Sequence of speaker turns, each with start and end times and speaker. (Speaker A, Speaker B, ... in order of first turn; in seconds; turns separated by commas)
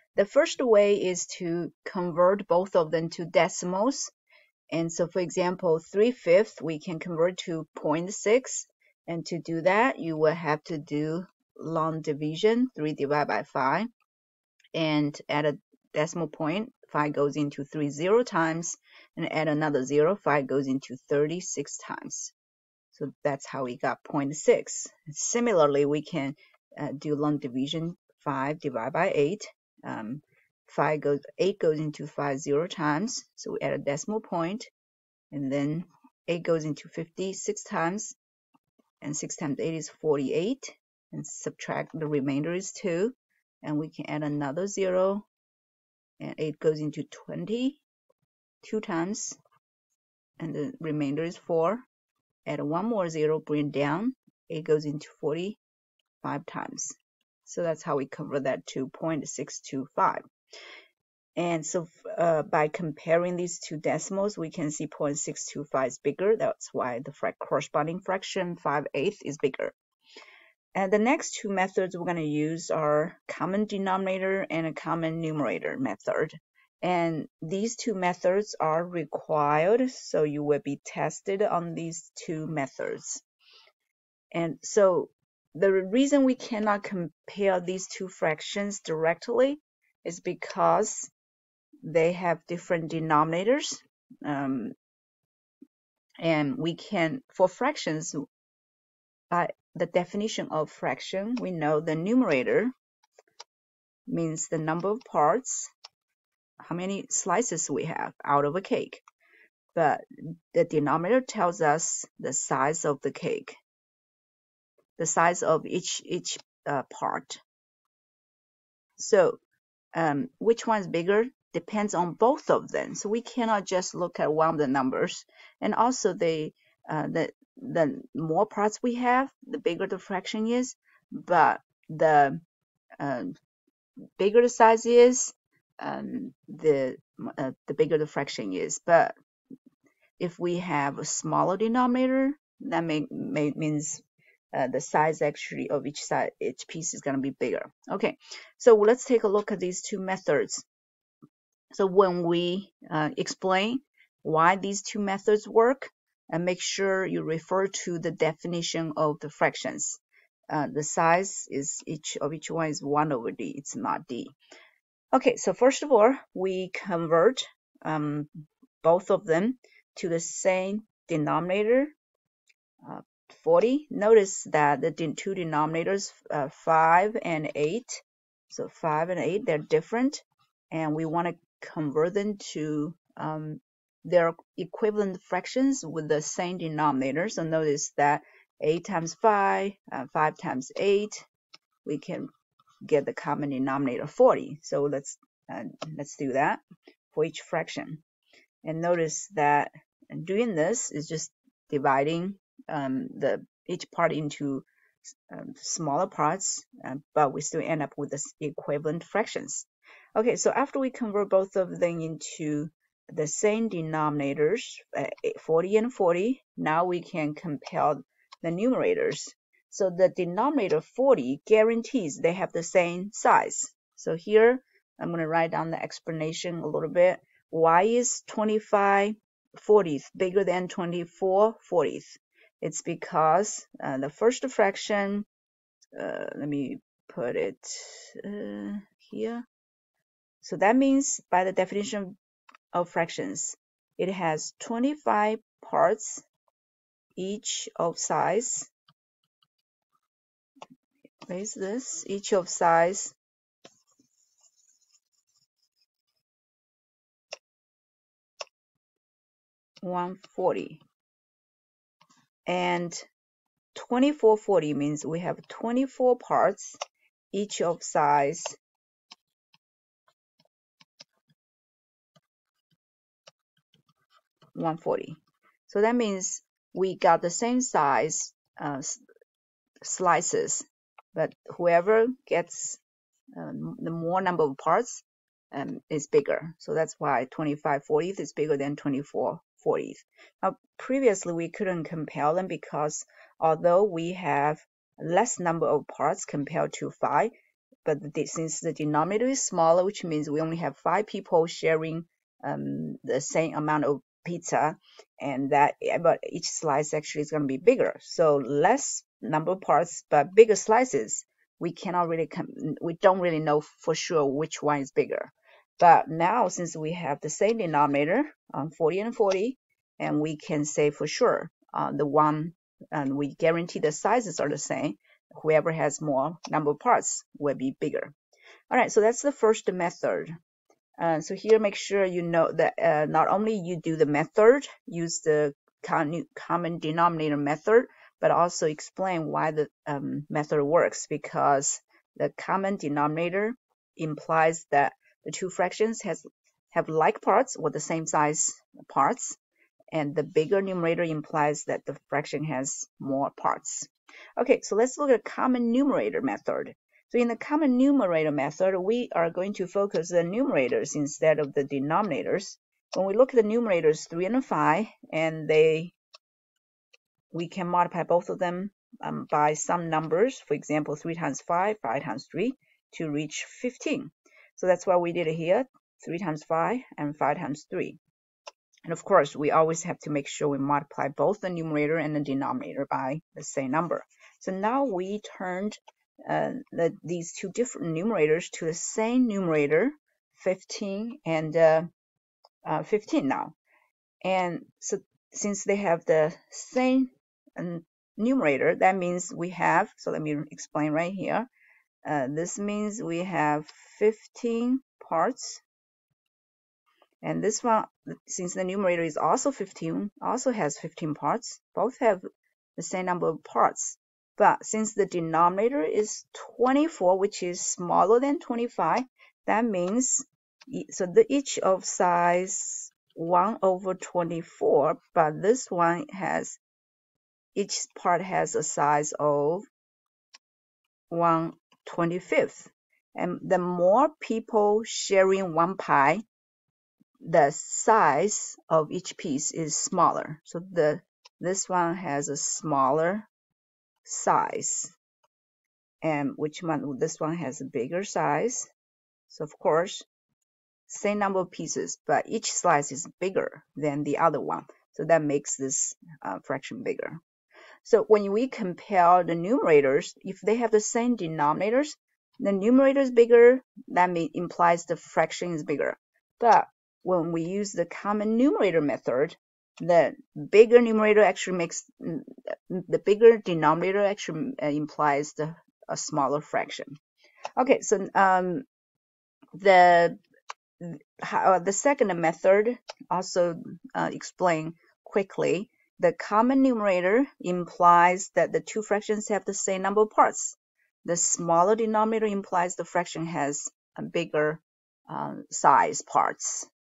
Speaker A: 0.1-4.1, Speaker A: 4.7-13.9, Speaker A: 14.7-22.3, Speaker A: 22.9-34.7, Speaker A: 35.3-38.2, Speaker A: 39.0-45.3, Speaker A: 46.2-47.8, Speaker A: 48.6-49.4, Speaker A: 50.4-51.9, Speaker A: 52.5-55.6, Speaker A: 56.2-60.2, Speaker A: 61.4-69.7, Speaker A: 70.7-83.2, Speaker A: 84.3-91.1, Speaker A: 91.8-94.7, Speaker A: 96.2-98.2, Speaker A: 99.3-102.7, Speaker A: 104.1-105.7, Speaker A: 106.6-109.0, Speaker A: 109.7-113.6, Speaker A: 115.0-117.4, Speaker A: 119.0-119.4, Speaker A: 119.9-132.4, Speaker A: 133.0-133.3, Speaker A: 134.2-139.1, Speaker A: 140.2-144.0, Speaker A: 144.5-150.6, Speaker A: 151.7-164.3, Speaker A: 165.1-168.3, Speaker A: 168.8-171.9, Speaker A: 172.8-191.3, Speaker A: 191.8-192.3, Speaker A: 192.8-198.0, Speaker A: 198.6-204.6, Speaker A: 205.3-235.3, Speaker A: 235.9-239.4, Speaker A: 240.4-242.2, Speaker A: 242.7-246.2, Speaker A: 247.2-248.7, Speaker A: 251.3-253.1, Speaker A: 259.8-260.8, Speaker A: 262.5-263.1, Speaker A: 263.7-266.8, Speaker A: 267.3-268.6, Speaker A: 274.5-279.0, Speaker A: 279.8-282.8, Speaker A: 283.4-297.3, Speaker A: 297.8-328.1, Speaker A: 328.7-330.4, Speaker A: 331.0-349.4, Speaker A: 349.9-365.9, Speaker A: 367.3-378.0, Speaker A: 378.9-391.9, Speaker A: 392.6-393.5, Speaker A: 394.2-401.5, Speaker A: 402.0-405.6, Speaker A: 407.2-412.2, Speaker A: 412.8-426.6, Speaker A: 427.5-429.6, Speaker A: 431.1-436.2, Speaker A: 437.2-443.3, Speaker A: 444.0-444.9, Speaker A: 446.0-448.7, Speaker A: 449.3-450.0, Speaker A: 450.9-457.2, Speaker A: 457.8-476.9, Speaker A: 477.6-478.6, Speaker A: 479.5-480.2, Speaker A: 480.8-496.7